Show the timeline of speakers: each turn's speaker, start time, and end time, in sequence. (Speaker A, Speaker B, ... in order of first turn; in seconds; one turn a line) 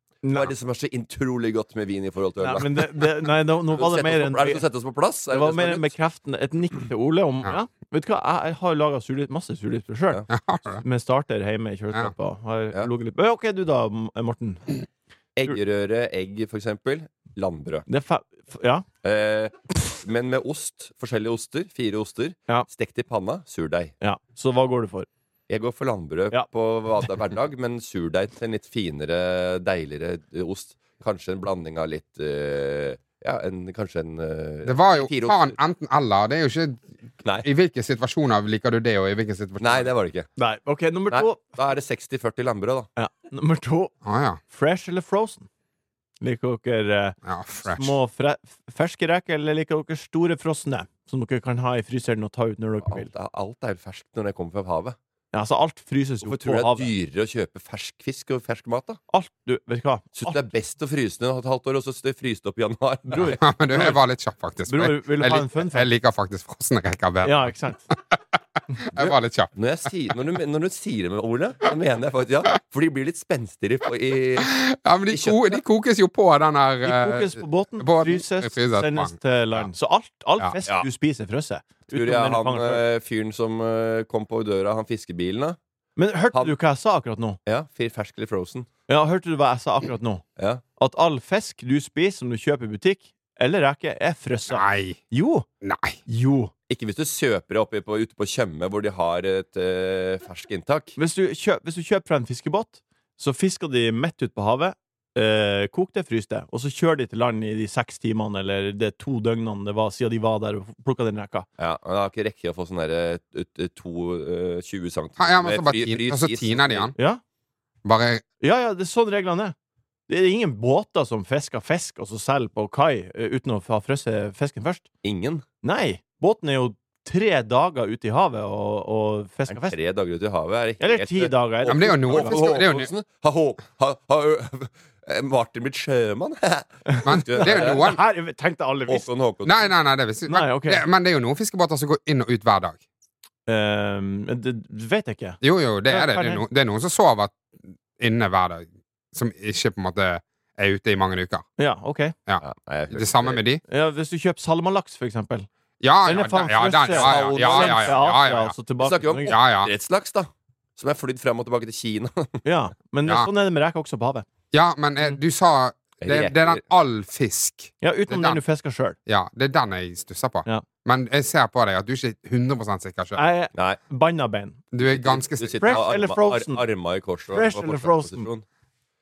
Speaker A: 0.2-0.5
Speaker B: 0.3-3.1
Speaker A: 2.4-4.6
Speaker B: 3.7-5.9
Speaker A: 5.3-10.2
Speaker C: 10.3-10.8
Speaker A: 10.8-14.7
Speaker B: 15.3-17.9
Speaker A: 17.9-18.9
Speaker B: 19.0-23.9
Speaker A: 24.0-25.1
Speaker B: 25.5-35.6
Speaker C: 34.6-36.9
Speaker C: 37.4-39.9
Speaker B: 39.6-40.3
Speaker A: 40.4-41.4
Speaker B: 41.1-42.9
Speaker A: 43.0-43.9
Speaker C: 44.0-44.4
Speaker A: 44.5-45.5
Speaker A: 46.2-53.1
Speaker C: 47.2-48.0
Speaker B: 52.8-55.0
Speaker A: 55.3-56.9
Speaker B: 56.2-59.0
Speaker A: 59.1-60.4
Speaker B: 60.1-63.4
Speaker A: 63.1-64.0
Speaker C: 63.4-68.2
Speaker A: 64.7-65.9
Speaker A: 67.2-67.8
Speaker C: 68.8-69.5
Speaker B: 69.0-74.5
Speaker C: 74.4-79.7
Speaker B: 75.1-75.6
Speaker A: 76.8-82.8
Speaker B: 81.9-85.6
Speaker A: 86.0-87.4
Speaker B: 87.5-88.7
Speaker A: 88.9-90.2
Speaker B: 90.4-90.6
Speaker A: 90.8-95.5
Speaker C: 94.5-95.0
Speaker C: 95.6-96.0
Speaker A: 96.1-96.5
Speaker B: 96.7-101.0
Speaker A: 101.0-111.5
Speaker B: 111.6-116.9
Speaker C: 115.2-116.9
Speaker C: 117.8-118.2
Speaker A: 118.4-119.5
Speaker A: 120.1-124.8
Speaker B: 125.0-125.4
Speaker A: 125.6-129.8
Speaker B: 129.5-137.9
Speaker A: 130.8-132.4
Speaker C: 131.7-132.9
Speaker A: 136.9-139.1
Speaker C: 137.1-138.0
Speaker B: 138.9-139.7
Speaker C: 139.4-142.8
Speaker A: 140.3-140.8
Speaker A: 143.5-146.4
Speaker C: 145.4-147.4
Speaker C: 148.0-151.4
Speaker A: 151.6-152.1
Speaker C: 152.3-153.6
Speaker B: 152.4-153.4
Speaker A: 153.7-155.5
Speaker C: 155.8-158.5
Speaker A: 156.0-159.3
Speaker B: 156.9-158.0
Speaker B: 158.8-162.4
Speaker C: 159.3-159.7
Speaker A: 162.4-164.2
Speaker C: 164.5-168.4
Speaker B: 166.0-166.6
Speaker A: 167.8-168.9
Speaker C: 169.1-173.2
Speaker A: 173.2-174.6
Speaker B: 173.5-173.8
Speaker C: 174.7-175.8
Speaker B: 174.9-178.4
Speaker A: 175.6-176.6
Speaker A: 177.3-178.3